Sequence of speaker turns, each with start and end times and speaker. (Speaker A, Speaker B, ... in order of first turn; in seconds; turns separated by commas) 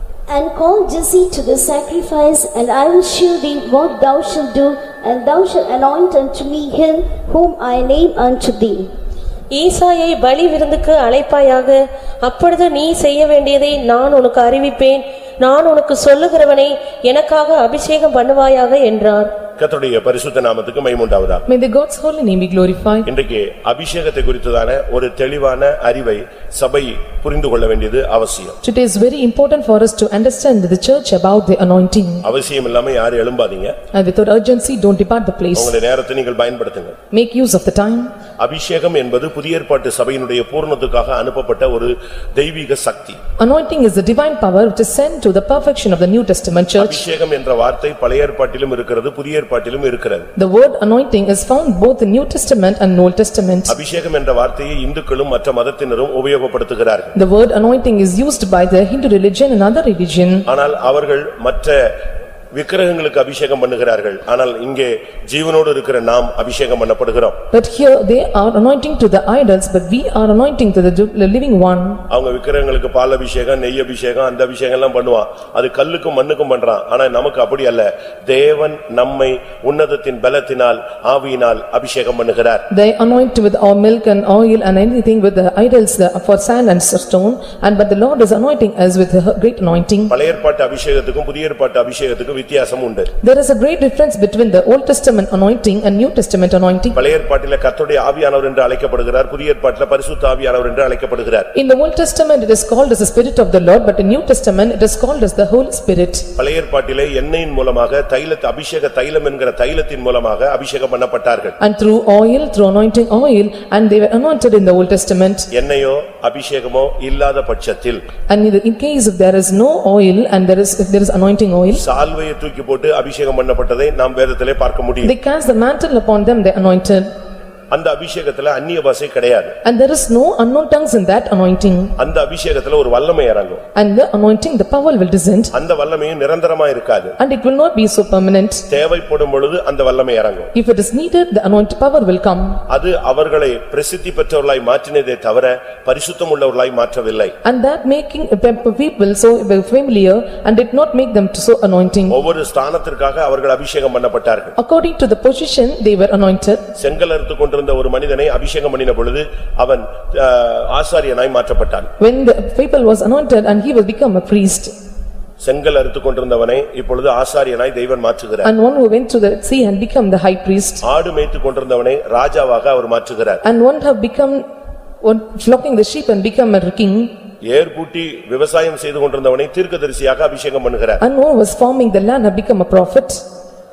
Speaker A: 0.3-8.9, Speaker B: 9.5-19.3, Speaker C: 19.6-21.4, Speaker D: 21.5-23.1, Speaker C: 23.1-28.6, Speaker D: 28.6-32.2, Speaker C: 32.2-33.8, Speaker D: 33.9-35.8, Speaker C: 35.5-37.0, Speaker D: 37.1-38.1, Speaker C: 38.4-43.2, Speaker D: 43.4-47.0, Speaker C: 46.8-50.3, Speaker D: 50.4-53.7, Speaker C: 53.7-57.1, Speaker D: 57.1-60.5, Speaker C: 60.5-61.9, Speaker C: 62.5-67.4, Speaker D: 67.5-72.0, Speaker C: 72.1-82.7, Speaker D: 82.7-90.1, Speaker C: 90.1-93.1, Speaker D: 93.2-97.0, Speaker C: 96.9-101.5, Speaker D: 101.5-106.3, Speaker C: 106.4-111.6, Speaker D: 111.6-115.5, Speaker C: 115.5-118.0, Speaker D: 118.3-121.8, Speaker C: 121.7-125.1, Speaker D: 125.0-127.1, Speaker C: 127.7-129.6, Speaker D: 129.6-131.9, Speaker C: 132.0-133.6, Speaker D: 133.8-135.5, Speaker C: 135.5-137.2, Speaker D: 137.2-138.6, Speaker C: 138.7-140.5, Speaker D: 140.5-142.6, Speaker C: 142.7-147.3, Speaker D: 147.4-152.2, Speaker C: 152.1-154.6, Speaker D: 154.6-156.6, Speaker C: 156.8-161.9, Speaker D: 162.0-164.7, Speaker C: 165.4-168.5, Speaker D: 168.4-170.8, Speaker C: 170.8-173.4, Speaker D: 173.4-174.4, Speaker D: 175.0-177.1, Speaker C: 177.5-181.0, Speaker D: 181.0-183.2